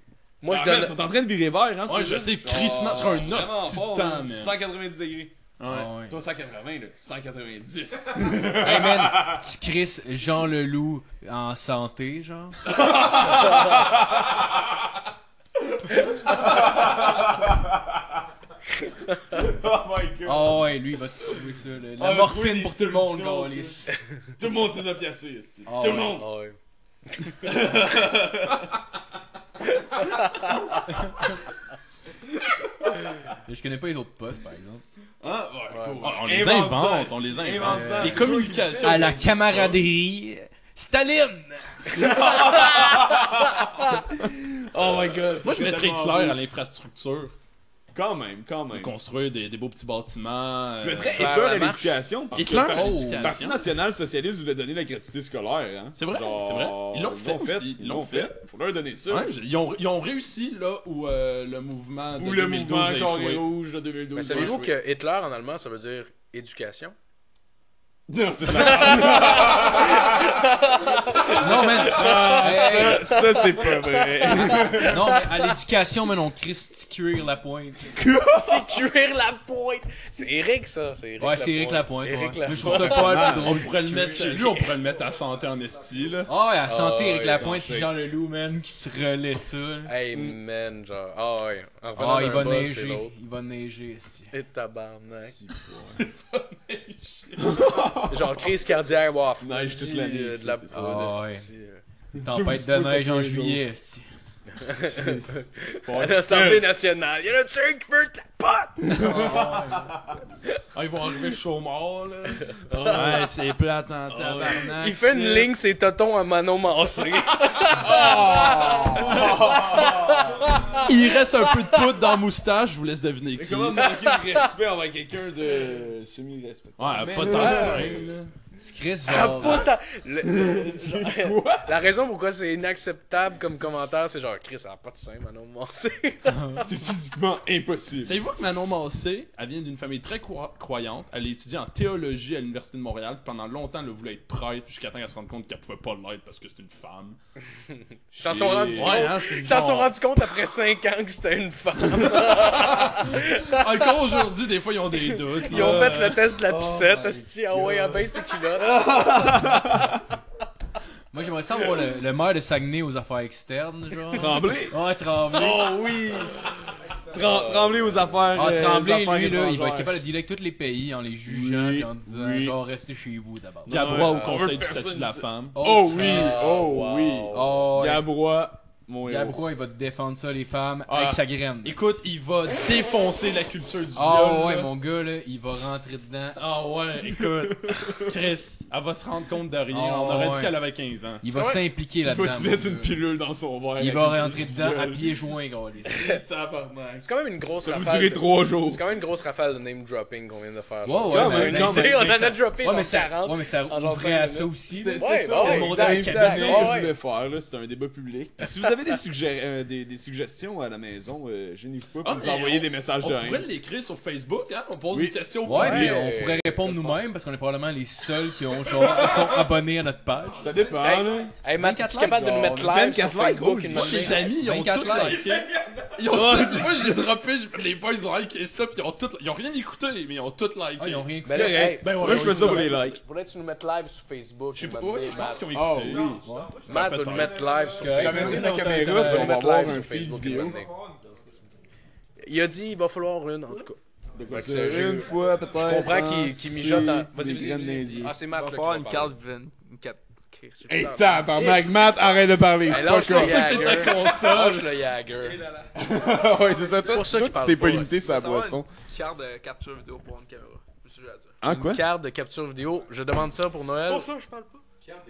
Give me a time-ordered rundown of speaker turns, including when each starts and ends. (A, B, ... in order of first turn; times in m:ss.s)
0:00.4-0:01.0 A
0:00.5-0:05.4 B
0:01.9-0:04.6 C
0:05.6-0:05.9 C
0:05.7-0:06.2 D
0:06.1-0:09.4 B
0:08.4-0:12.6 D
0:12.7-0:14.8 B
0:15.6-0:18.2 B
0:19.3-0:20.7 B
0:20.2-0:23.9 D
0:22.0-0:26.3 B
0:25.7-0:26.2 D
0:25.8-0:26.6 A
0:27.2-0:27.5 A
0:27.3-0:29.0 B
0:29.8-0:30.8 A
0:30.4-0:31.0 B
0:32.9-0:33.2 B
0:33.4-0:34.8 D
0:35.2-0:39.8 B
0:35.7-0:36.2 A
0:36.0-0:39.8 C
0:37.6-0:42.0 D
0:41.8-0:46.4 B
0:42.2-0:43.3 A
0:45.4-0:47.3 C
0:47.9-0:49.0 B
0:48.7-0:51.4 C
0:50.8-0:59.3 B
0:51.0-0:52.0 A
0:52.3-0:53.6 C
0:52.6-0:53.4 D
0:56.0-0:58.3 C
0:59.1-1:03.5 C
1:02.2-1:04.8 B
1:04.1-1:07.0 A
1:08.1-1:10.5 B
1:08.5-1:15.5 A
1:11.1-1:15.1 B
1:11.3-1:13.2 D
1:14.7-1:18.0 D
1:17.9-1:18.7 B
1:18.3-1:23.5 A
1:21.2-1:24.6 D
1:22.6-1:26.3 C
1:22.6-1:24.6 B
1:26.3-1:30.0 D
1:26.6-1:27.5 A
1:27.3-1:28.0 B
1:29.9-1:33.1 A
1:32.0-1:34.3 D
1:34.3-1:35.4 A
1:35.2-1:36.1 B
1:36.7-1:38.5 B
1:38.1-1:41.8 A
1:39.4-1:41.2 B
1:40.7-1:41.4 D
1:42.1-1:43.7 B
1:42.2-1:44.1 D
1:44.5-1:49.5 A
1:44.9-1:46.7 B
1:48.9-1:50.2 B
1:49.0-1:49.9 D
1:50.7-1:55.5 C
1:52.7-1:53.0 A
1:52.7-1:53.3 B
1:54.1-1:54.8 B
1:54.8-2:01.8 A
1:57.7-2:00.8 B
2:00.8-2:03.9 C
2:03.3-2:08.1 B
2:04.0-2:04.4 A
2:06.8-2:08.3 C
2:07.3-2:07.9 A
2:08.6-2:09.7 D
2:09.1-2:16.6 A
2:10.3-2:11.8 B
2:16.6-2:18.2 B
2:18.0-2:27.2 C
2:28.1-2:29.1 B
2:28.2-2:34.0 A
2:28.7-2:30.0 C
2:31.8-2:36.4 C
2:35.1-2:40.0 A
2:35.5-2:40.0 B
2:41.1-2:45.8 D
2:44.1-2:44.8 B
2:45.3-2:46.4 B
2:46.9-2:48.0 E
2:47.1-2:50.0 B
2:47.1-2:48.2 A
2:48.3-2:54.3 D
2:51.2-2:52.6 B
2:53.6-2:59.5 B
2:53.7-2:55.8 C
2:55.6-2:56.7 D
2:56.0-2:57.6 A
2:57.3-2:58.1 D
2:59.0-3:02.0 D
3:00.9-3:04.7 C
3:00.9-3:01.2 B
3:03.9-3:06.4 D
3:06.4-3:11.2 C
3:06.9-3:08.2 B
3:09.7-3:10.6 D
3:11.2-3:13.0 D
3:11.3-3:11.6 A
3:12.0-3:15.3 B
3:13.8-3:16.2 D
3:16.0-3:18.8 B
3:17.0-3:26.9 A
3:20.8-3:26.8 D
3:21.1-3:22.3 B
3:24.7-3:33.5 B
3:32.0-3:35.9 C
3:34.9-3:36.1 B
3:35.4-3:40.5 D
3:35.5-3:37.0 A
3:38.7-3:39.6 E
3:40.3-3:41.3 E
3:40.4-3:41.4 B
3:40.7-3:44.3 A
3:41.6-3:42.8 D
3:42.0-3:44.2 B
3:43.7-3:51.1 C
3:44.2-3:45.3 D
3:44.9-3:46.1 E
3:46.0-3:47.1 B
3:50.8-3:51.8 D
3:51.2-3:53.0 B
3:51.2-3:55.5 A
3:51.8-3:52.9 C
3:54.5-3:57.6 C
3:55.3-3:58.0 E
3:55.5-3:56.2 B
3:56.2-3:56.6 D
3:56.6-4:00.7 A
3:57.7-3:59.7 D
3:57.9-4:00.6 B
4:00.0-4:01.3 E
4:02.2-4:09.2 A
4:04.1-4:08.2 B
4:05.0-4:05.4 E
4:08.2-4:10.1 E
4:10.3-4:11.4 A
4:10.7-4:13.8 B
4:11.4-4:12.4 E
4:12.7-4:15.4 A
4:12.9-4:14.6 C
4:13.9-4:14.4 E
4:15.1-4:21.4 E
4:15.8-4:18.7 B
4:16.8-4:18.0 A
4:21.4-4:21.8 B
4:21.4-4:24.1 A
4:23.8-4:24.6 E